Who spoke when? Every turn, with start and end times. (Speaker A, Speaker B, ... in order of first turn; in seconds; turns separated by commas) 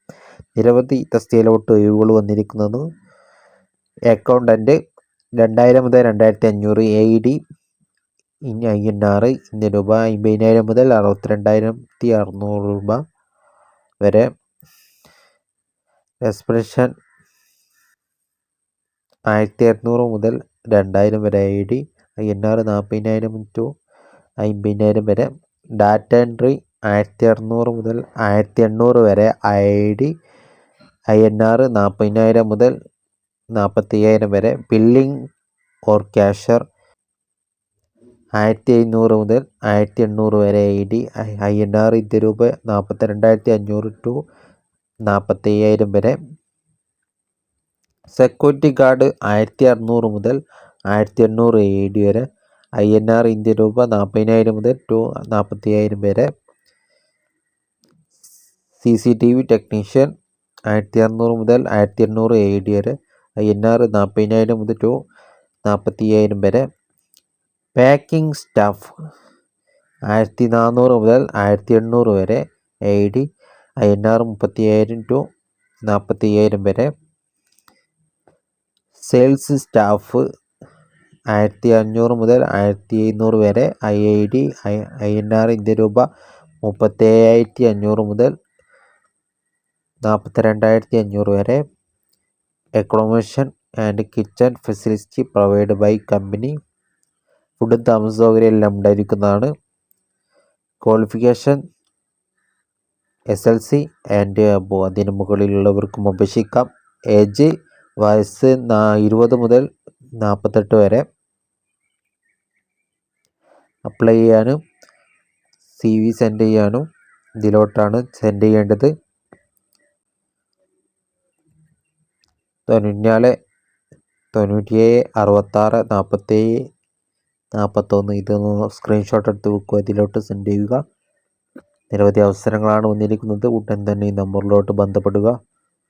Speaker A: 0.6-2.8, Speaker A: 4.1-4.8, Speaker A: 5.4-7.4, Speaker A: 8.5-13.0, Speaker A: 14.0-14.3, Speaker A: 16.2-16.9, Speaker A: 19.3-23.7, Speaker A: 24.4-30.1, Speaker A: 31.1-32.7, Speaker A: 33.5-35.1, Speaker A: 35.9-36.6, Speaker A: 38.4-44.2, Speaker A: 45.1-46.2, Speaker A: 48.1-50.4, Speaker A: 50.9-52.2, Speaker A: 52.8-56.3, Speaker A: 58.8-60.1, Speaker A: 60.7-65.0, Speaker A: 65.7-66.6, Speaker A: 67.8-68.9, Speaker A: 70.1-73.2, Speaker A: 73.8-75.2, Speaker A: 75.9-76.9, Speaker A: 79.0-80.2, Speaker A: 81.3-86.0, Speaker A: 86.6-88.3, Speaker A: 90.0-91.6, Speaker A: 92.8-96.5, Speaker A: 97.6-99.5, Speaker A: 100.8-101.6, Speaker A: 103.3-107.5, Speaker A: 108.0-109.7, Speaker A: 110.2-111.0, Speaker A: 113.8-114.6, Speaker A: 115.7-116.8, Speaker A: 117.4-118.9, Speaker A: 122.7-123.3, Speaker A: 124.3-126.5, Speaker A: 127.5-130.8, Speaker A: 131.9-135.3